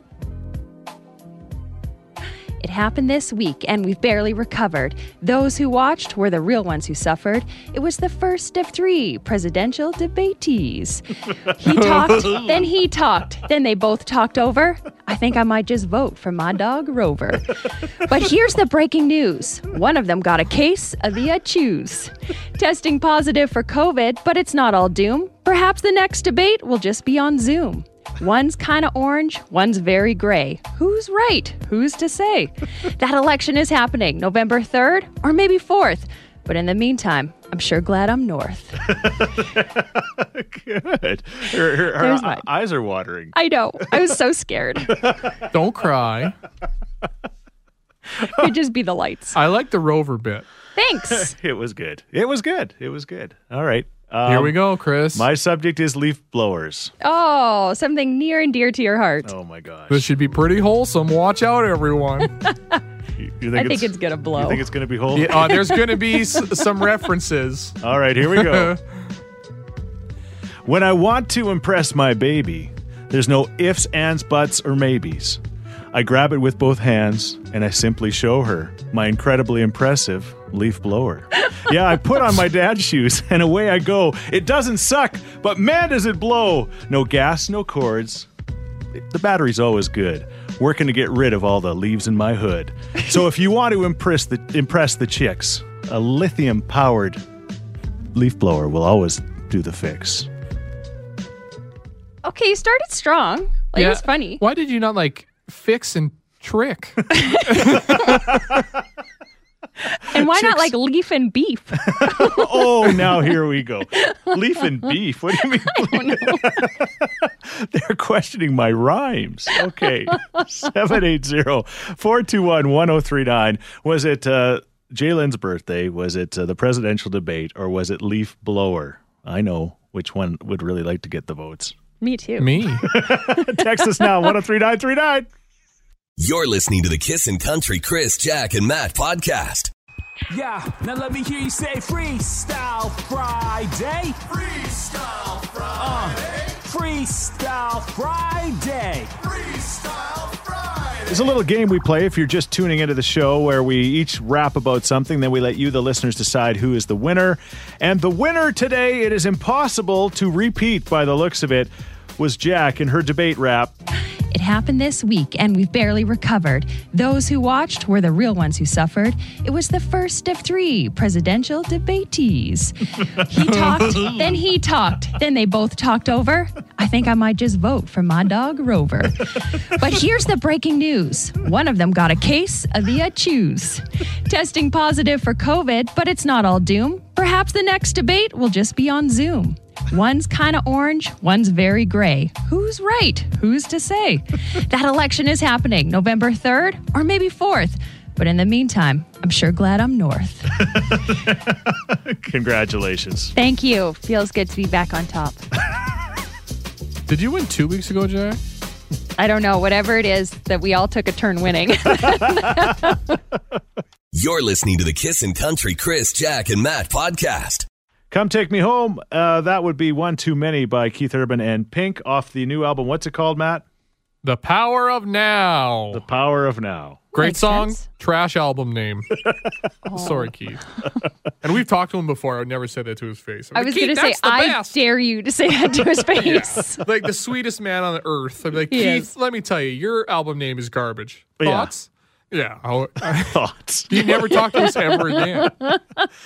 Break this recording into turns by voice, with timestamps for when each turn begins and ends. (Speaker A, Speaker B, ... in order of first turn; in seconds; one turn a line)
Speaker A: 2.6-39.0
Speaker B: 38.9-43.3
Speaker A: 41.9-42.4
Speaker A: 43.3-45.0
Speaker B: 45.0-45.5
Speaker C: 45.5-46.4
Speaker A: 48.2-49.4
Speaker C: 49.3-50.5
Speaker A: 50.7-51.3
Speaker B: 51.1-54.6
Speaker C: 54.2-55.3
Speaker B: 55.1-56.9
Speaker A: 57.0-59.3
Speaker B: 59.2-60.1
Speaker C: 59.9-62.3
Speaker A: 62.2-62.8
Speaker B: 63.2-65.7
Speaker A: 63.5-64.6
Speaker C: 65.1-67.8
Speaker A: 65.6-65.8
Speaker B: 67.8-68.8
Speaker C: 68.3-68.8
Speaker B: 70.6-75.4
Speaker B: 75.9-88.3
Speaker B: 88.9-97.2
Speaker B: 98.1-100.3
Speaker A: 102.2-104.4
Speaker C: 103.7-108.2
Speaker A: 107.1-108.2
Speaker B: 108.0-108.6
Speaker A: 109.9-113.0
Speaker B: 110.1-110.7
Speaker B: 111.8-131.7
Speaker A: 114.0-114.3
Speaker A: 115.7-116.7
Speaker A: 132.0-134.2
Speaker C: 132.4-132.9
Speaker B: 132.8-135.3
Speaker D: 136.2-139.7
Speaker E: 140.3-151.0
Speaker B: 151.1-163.7
Speaker A: 164.3-200.8
Speaker B: 201.2-203.3
Speaker A: 203.3-205.4
Speaker C: 207.1-208.4
Speaker A: 209.2-213.2
Speaker D: 214.1-217.7
Speaker B: 218.1-223.6
Speaker C: 224.2-226.0
Speaker B: 225.9-227.1
Speaker C: 227.1-229.2
Speaker A: 227.2-227.8
Speaker A: 229.8-230.3
Speaker C: 229.9-230.7
Speaker C: 231.4-234.8
Speaker A: 233.5-236.8
Speaker C: 236.1-245.6
Speaker A: 238.7-239.1
Speaker B: 241.4-241.7
Speaker B: 243.1-244.1
Speaker A: 244.5-246.1